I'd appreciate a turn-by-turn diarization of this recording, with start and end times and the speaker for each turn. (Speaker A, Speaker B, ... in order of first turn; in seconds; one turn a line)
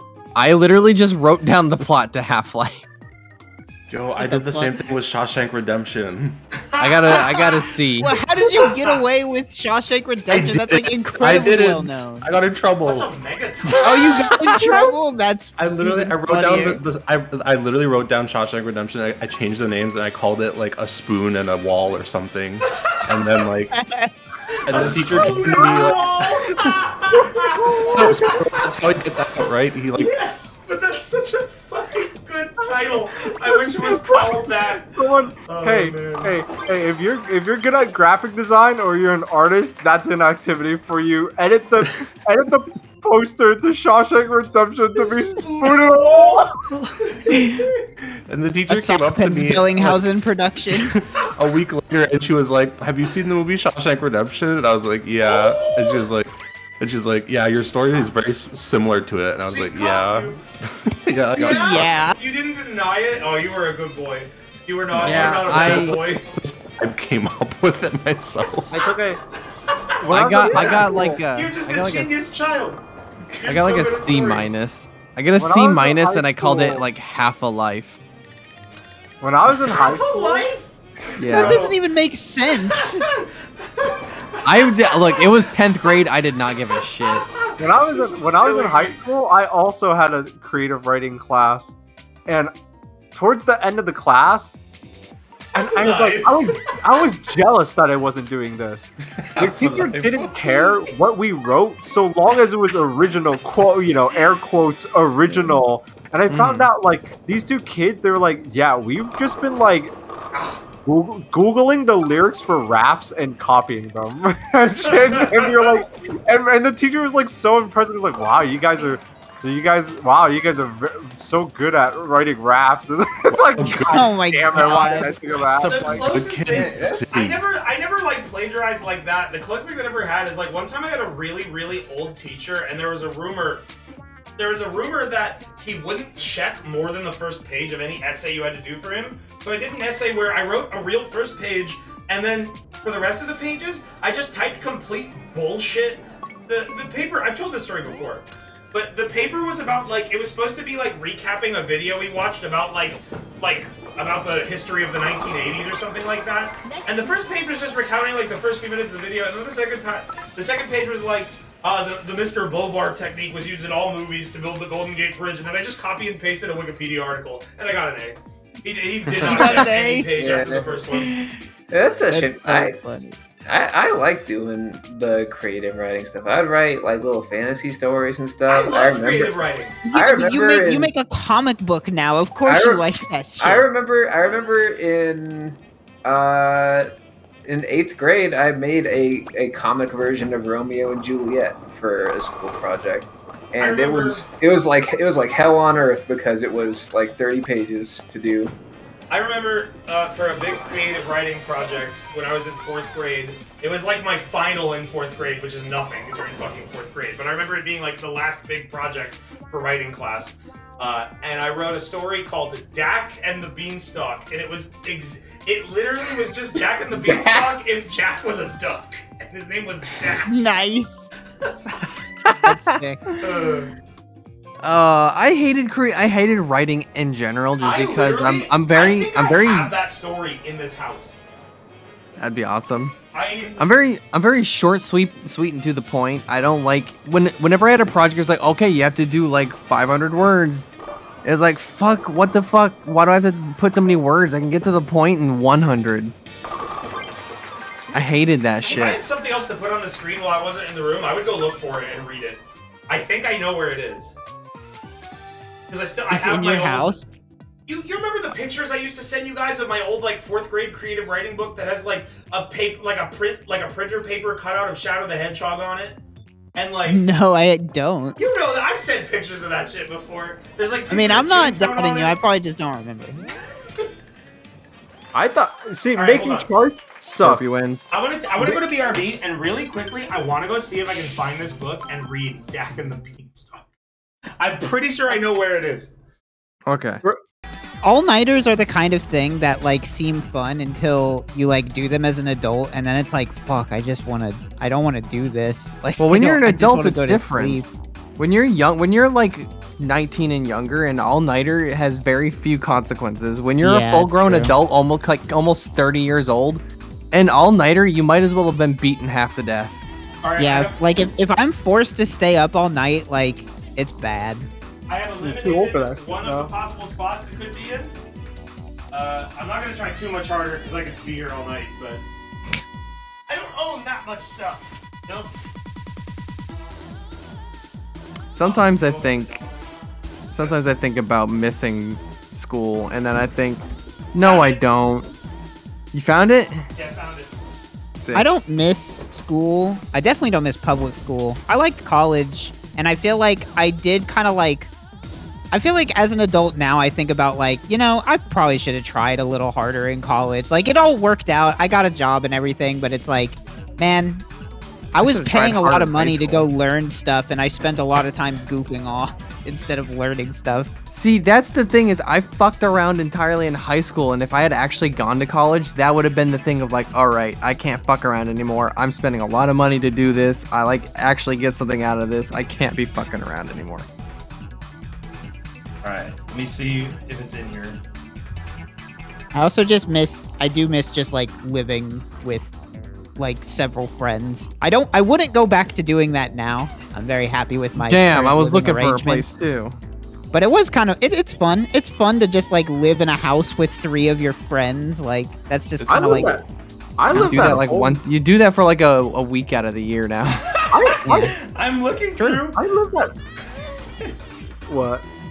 Speaker A: 0.3-2.9
Speaker B: 3.9-6.3
Speaker C: 4.2-4.8
Speaker D: 6.6-7.7
Speaker A: 6.8-8.2
Speaker C: 8.0-12.3
Speaker D: 8.4-9.0
Speaker B: 10.3-13.1
Speaker D: 12.8-14.8
Speaker C: 13.7-16.8
Speaker B: 15.6-23.8
Speaker D: 22.7-23.1
Speaker C: 23.7-24.1
Speaker B: 24.6-26.8
Speaker D: 24.6-28.7
Speaker E: 27.6-28.1
Speaker B: 27.6-30.1
Speaker D: 29.9-34.9
Speaker E: 33.5-46.5
Speaker D: 35.4-36.4
Speaker D: 45.0-47.7
Speaker B: 48.3-50.0
Speaker C: 48.7-50.9
Speaker B: 50.7-61.9
Speaker D: 55.3-56.1
Speaker D: 59.5-60.4
Speaker D: 61.3-66.4
Speaker C: 61.4-62.2
Speaker B: 64.9-68.9
Speaker A: 65.0-65.9
Speaker E: 68.7-69.2
Speaker D: 69.7-72.8
Speaker E: 70.0-71.2
Speaker A: 70.1-72.1
Speaker D: 73.3-74.5
Speaker A: 73.5-78.0
Speaker E: 75.4-76.8
Speaker E: 79.2-80.5
Speaker D: 79.6-81.8
Speaker A: 81.2-81.6
Speaker C: 81.3-83.1
Speaker D: 82.6-85.3
Speaker A: 84.4-87.3
Speaker D: 87.0-89.0
Speaker E: 87.6-92.5
Speaker E: 93.1-94.6
Speaker E: 95.5-109.9
Speaker D: 95.5-97.1
Speaker D: 99.4-100.8
Speaker A: 106.3-106.7
Speaker E: 110.8-126.2
Speaker D: 114.9-115.8
Speaker B: 123.5-124.9
Speaker C: 123.6-125.1
Speaker B: 125.6-127.4
Speaker D: 125.6-133.7
Speaker F: 126.5-127.1
Speaker D: 134.4-171.2
Speaker C: 169.2-170.1
Speaker F: 170.1-170.8
Speaker C: 170.9-171.3
Speaker F: 171.7-172.8
Speaker C: 172.1-173.2
Speaker F: 173.4-179.3
Speaker D: 178.5-179.8
Speaker C: 179.8-183.7
Speaker F: 179.9-180.9
Speaker F: 182.4-182.8
Speaker F: 183.4-186.9
Speaker F: 187.4-198.5
Speaker D: 193.6-194.2
Speaker D: 199.1-220.3
Speaker F: 216.9-217.5
Speaker C: 220.2-221.1
Speaker A: 222.2-222.7
Speaker C: 222.4-223.2
Speaker D: 223.2-223.7
Speaker A: 224.6-229.7
Speaker D: 227.6-231.1
Speaker A: 232.2-232.9
Speaker D: 233.1-233.7
Speaker A: 233.6-240.7
Speaker A: 241.2-246.1
Speaker A: 247.9-249.0
Speaker D: 248.7-254.1
Speaker D: 255.7-257.0
Speaker C: 256.1-257.0
Speaker D: 257.7-266.0
Speaker D: 266.6-267.0
Speaker C: 266.9-268.2
Speaker D: 268.2-272.2
Speaker C: 270.9-273.2
Speaker E: 275.1-277.5
Speaker D: 275.9-276.5
Speaker A: 277.2-277.9
Speaker D: 277.9-283.6
Speaker D: 284.4-285.9
Speaker A: 286.6-287.0
Speaker C: 287.8-297.7
Speaker A: 296.0-297.6
Speaker A: 298.2-309.8
Speaker C: 303.6-304.5
Speaker D: 310.2-310.9
Speaker C: 310.4-314.5
Speaker D: 314.9-317.9
Speaker E: 315.2-316.5
Speaker D: 318.9-322.0
Speaker D: 323.3-325.3
Speaker A: 328.3-329.4
Speaker D: 328.4-329.4
Speaker A: 330.3-335.1
Speaker D: 334.2-334.6
Speaker A: 335.9-336.6
Speaker D: 336.7-337.6
Speaker A: 338.0-338.3
Speaker C: 338.1-344.7
Speaker C: 345.5-354.2
Speaker C: 354.9-360.7
Speaker A: 355.0-356.5
Speaker A: 360.9-373.9
Speaker D: 375.8-377.8
Speaker C: 379.3-382.5
Speaker C: 383.2-389.3
Speaker A: 387.8-389.8
Speaker C: 390.3-396.4
Speaker B: 395.9-396.1
Speaker E: 395.9-396.4
Speaker E: 397.0-398.0
Speaker A: 397.1-400.6
Speaker C: 397.1-397.6
Speaker D: 400.6-402.6
Speaker E: 400.7-401.4
Speaker C: 401.0-401.3
Speaker E: 402.5-403.1
Speaker D: 403.6-404.1
Speaker E: 404.7-405.0